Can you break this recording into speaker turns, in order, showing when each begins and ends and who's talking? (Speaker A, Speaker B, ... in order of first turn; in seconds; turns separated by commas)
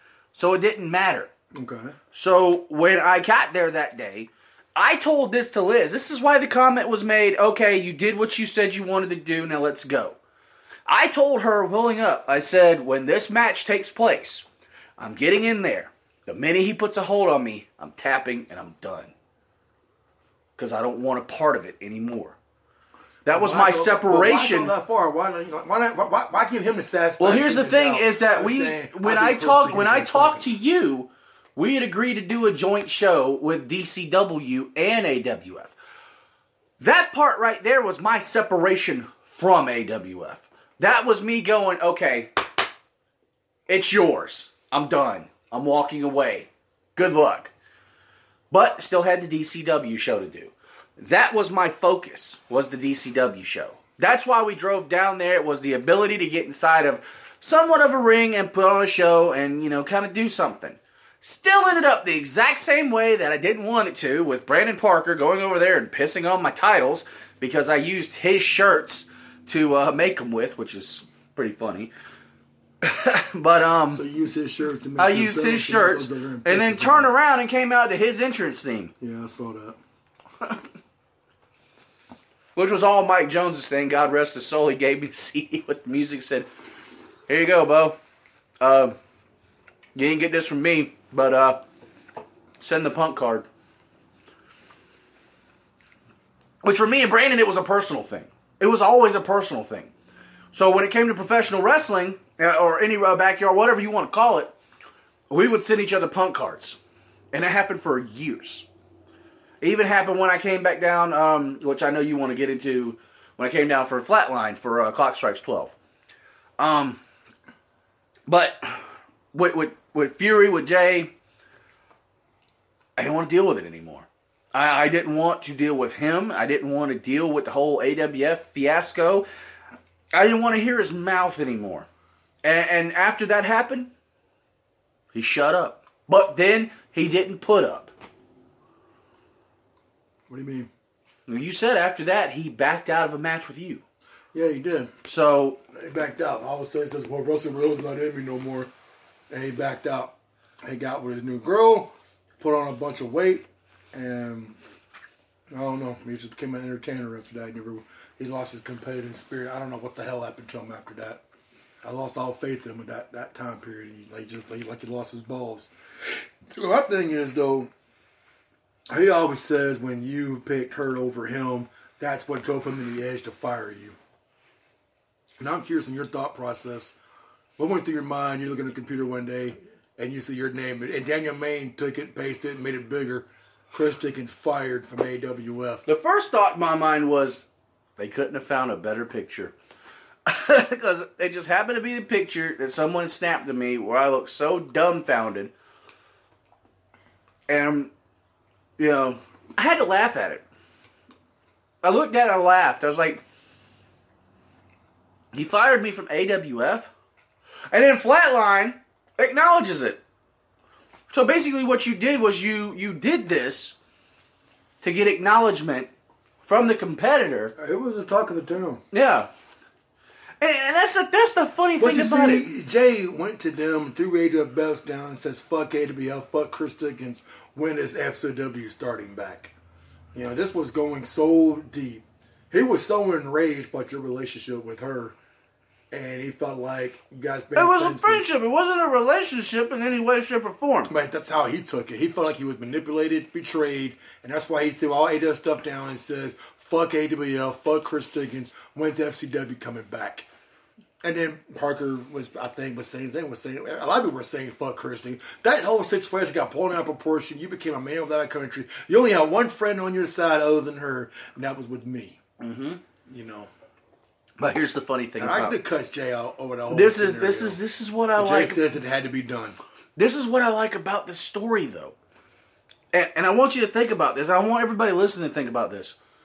Speaker A: 0.3-1.3, Speaker B: 1.5-1.9, Speaker A: 2.1-10.2, Speaker A: 10.8-14.4, Speaker A: 15.0-19.1, Speaker A: 20.6-22.4, Speaker A: 23.2-24.7, Speaker B: 23.3-30.6, Speaker A: 27.2-35.7, Speaker A: 36.8-42.3, Speaker A: 43.7-47.5, Speaker A: 48.5-71.9, Speaker A: 72.8-74.0, Speaker B: 73.9-77.1, Speaker A: 75.0-78.9, Speaker B: 79.0-79.8, Speaker A: 82.5-86.5, Speaker A: 87.3-88.0, Speaker A: 88.6-89.0, Speaker A: 89.9-91.6, Speaker A: 92.6-93.5, Speaker A: 96.6-99.9, Speaker A: 100.5-104.5, Speaker A: 105.3-106.8, Speaker A: 107.3-108.7, Speaker A: 109.6-115.7, Speaker A: 116.6-117.0, Speaker A: 118.3-121.1, Speaker A: 123.0-129.2, Speaker A: 130.1-131.9, Speaker A: 132.4-133.9, Speaker A: 135.1-137.9, Speaker B: 140.3-140.7, Speaker A: 141.3-143.8, Speaker B: 144.3-144.9, Speaker A: 145.0-145.6, Speaker B: 145.7-148.7, Speaker B: 149.3-154.6, Speaker B: 155.5-161.2, Speaker B: 161.8-165.7, Speaker B: 166.5-167.7, Speaker B: 168.9-174.0, Speaker B: 175.4-177.0, Speaker B: 177.6-185.8, Speaker A: 185.8-189.5, Speaker A: 190.3-195.5, Speaker A: 197.5-197.9, Speaker A: 198.8-200.4, Speaker A: 201.8-203.2, Speaker A: 205.3-206.9, Speaker A: 207.7-210.0, Speaker A: 211.1-213.8, Speaker A: 214.8-215.9, Speaker A: 216.4-217.5, Speaker B: 217.6-218.8, Speaker A: 218.9-219.3, Speaker A: 220.4-222.5, Speaker B: 221.8-229.5, Speaker B: 230.1-235.2, Speaker B: 235.9-238.4, Speaker A: 237.6-240.9, Speaker B: 240.9-250.3, Speaker B: 251.0-262.2, Speaker A: 262.4-262.8, Speaker B: 263.1-263.5, Speaker A: 264.4-265.6, Speaker B: 265.2-267.6, Speaker A: 266.7-268.6, Speaker B: 268.2-269.6, Speaker A: 269.9-271.9, Speaker A: 272.9-276.0